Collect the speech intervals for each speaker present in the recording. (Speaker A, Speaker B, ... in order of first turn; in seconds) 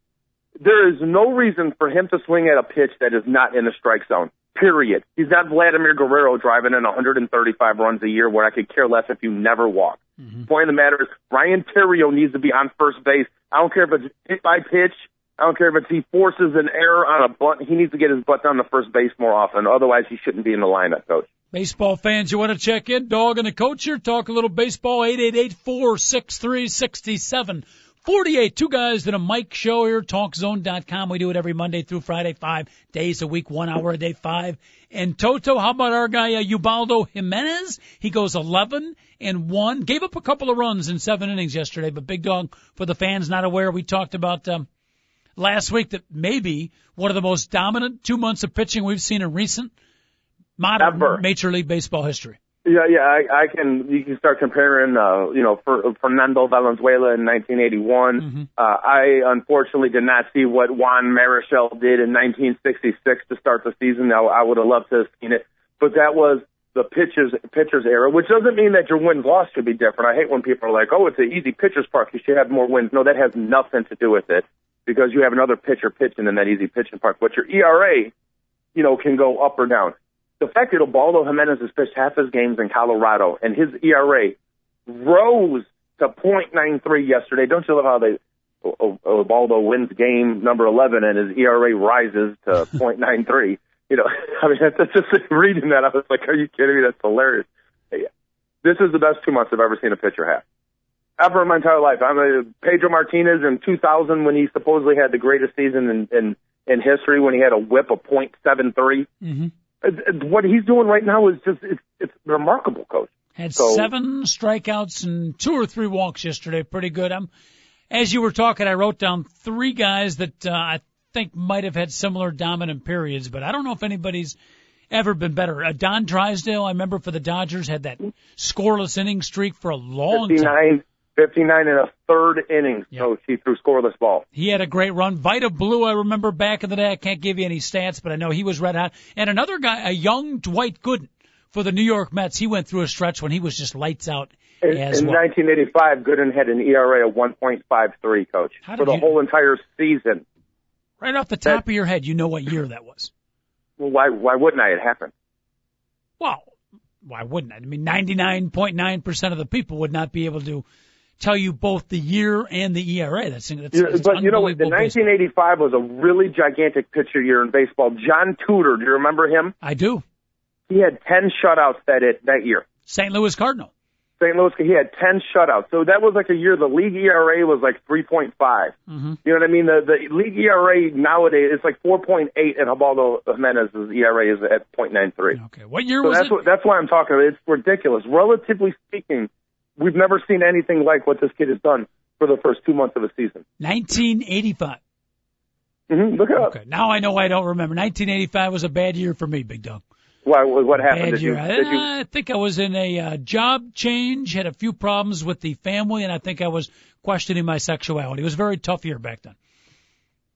Speaker A: 0.6-21.3, 50.8-51.2, 52.6-78.1, 78.7-84.3, 84.9-98.1, 98.6-100.4, 101.2-109.1, 109.8-113.9, 130.1-134.2, 144.6-150.2, 153.8-155.1, 163.7-169.5, 170.7-172.6, 174.2-185.4, 186.0-193.4, 195.9-196.5, 200.2-201.8
Speaker B: 21.5-44.6, 45.4-49.7, 50.6-52.4, 58.2-58.5, 109.2-109.5, 113.3-117.3, 117.9-124.3, 124.9-130.5, 134.3-145.2, 148.6-149.1, 151.0-153.1, 156.2-156.5, 157.0-160.6, 161.2-165.0, 169.6-170.0, 172.9-173.7, 178.9-179.2, 185.3-186.3, 193.6-194.8, 196.3-199.8, 200.8-209.3